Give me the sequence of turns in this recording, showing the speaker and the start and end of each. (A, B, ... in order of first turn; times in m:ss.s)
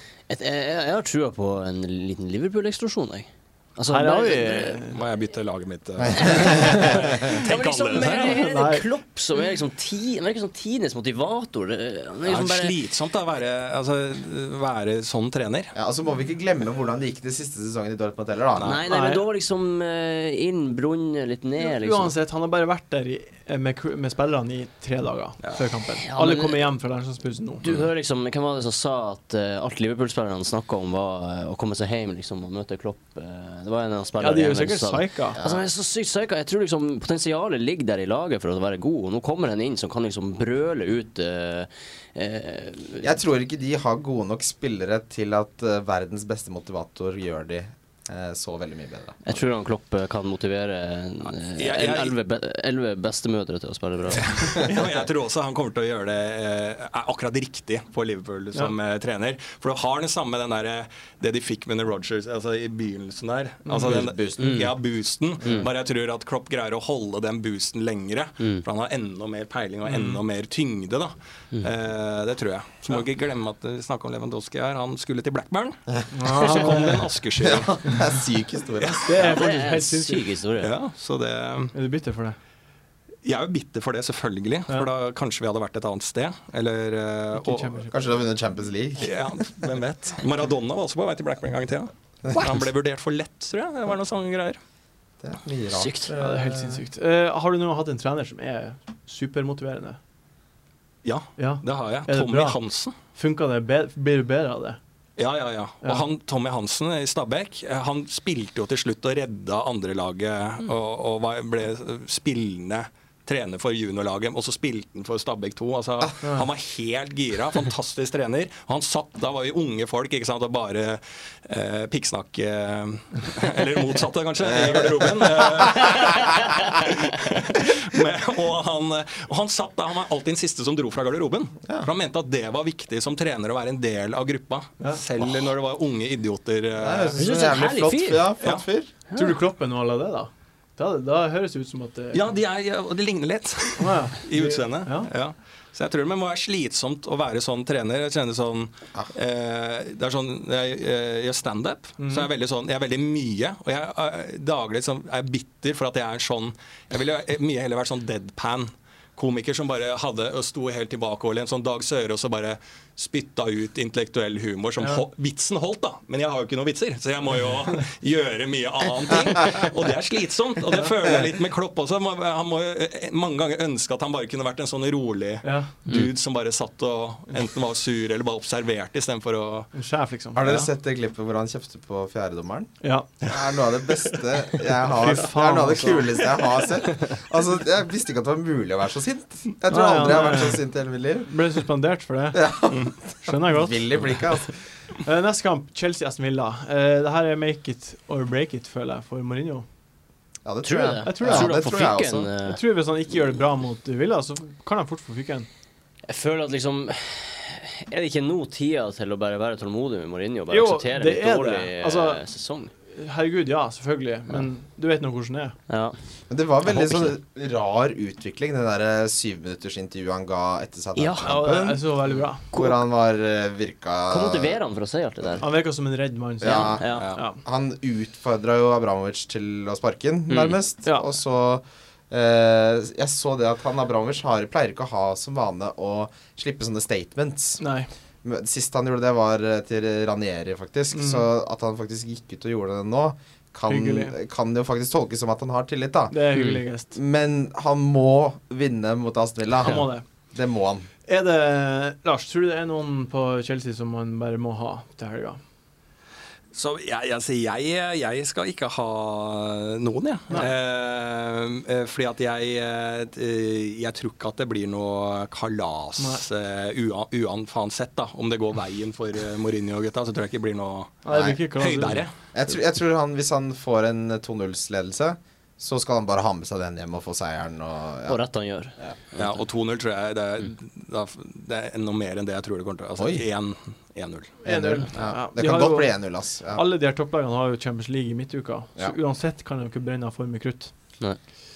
0:00.3-0:04.8 A
0:03.9-0:05.0 B
0:04.9-0:08.4 C
0:06.0-0:07.1 D
0:06.1-0:12.8 A
0:08.2-0:08.9 B
0:12.2-0:15.7 C
0:15.8-0:18.8 D
0:18.6-0:22.1 A
0:18.9-0:19.2 B
0:21.6-0:27.6 B
0:26.0-0:26.7 A
0:27.6-0:43.1 A
0:34.2-0:35.4 B
0:35.4-0:35.7 D
0:43.0-0:49.2 D
0:49.2-0:54.7 A
0:51.3-0:52.2 C
0:54.2-1:17.8 C
1:03.7-1:04.0 B
1:03.8-1:04.6 D
1:04.4-1:04.7 A
1:09.8-1:10.2 B
1:16.1-1:17.1 B
1:17.4-1:19.3 D
1:18.8-1:20.3 B
1:19.2-1:20.7 A
1:20.6-1:21.8 C
1:21.7-1:22.4 B
1:23.2-1:27.8 C
1:27.4-1:28.0 B
1:27.9-1:29.1 D
1:29.0-1:34.6 C
1:35.2-1:36.8 D
1:35.7-1:36.1 A
1:36.2-1:40.0 B
1:41.0-1:43.0 C
1:41.4-1:44.8 B
1:45.2-2:17.2 C
2:04.7-2:05.6 D
2:16.8-2:18.9 D
2:17.2-2:18.3 A
2:18.4-2:18.6 C
2:19.1-2:19.4 A
2:19.2-2:22.2 B
2:22.1-2:59.7 C
2:23.8-2:25.1 B
2:32.0-2:32.3 B
2:55.4-2:55.7 B
2:59.7-3:00.7 B
3:00.4-3:02.7 D
3:02.8-3:03.1 B
3:03.2-3:11.3 D
3:04.9-3:06.3 B
3:09.7-3:10.6 B
3:11.3-3:12.4 B
3:12.3-3:14.6 D
3:13.2-3:14.2 B
3:15.0-3:19.7 B
3:20.4-3:22.3 D
3:20.6-3:22.6 A
3:21.0-3:21.6 B
3:22.5-3:25.5 B
3:26.1-3:32.7 A
3:30.5-3:32.2 B
3:32.9-3:35.6 B
3:35.7-3:36.0 A
3:36.3-3:41.8 D
3:36.7-3:37.1 A
3:41.0-3:41.3 A
3:41.2-3:42.5 B
3:42.5-3:44.6 D
3:44.1-3:45.5 A
3:45.4-3:47.4 B
3:46.4-3:57.6 D
3:46.4-3:47.1 A
3:50.3-3:50.6 A
3:57.6-3:57.9 B
3:58.2-4:06.2 D
4:00.9-4:01.3 B
4:03.7-4:04.2 B
4:06.1-4:07.0 B
4:06.3-4:06.6 A
4:06.9-4:10.9 D
4:09.6-4:10.0 B
4:11.1-4:15.4 B
4:16.5-4:32.1 C
4:31.0-4:32.0 B
4:31.1-4:31.4 D
4:32.3-4:38.2 D
4:38.1-4:39.4 A
4:39.2-4:44.4 C
4:43.0-4:43.2 D
4:44.4-4:46.0 B
4:44.5-4:46.6 D
4:46.5-4:50.7 B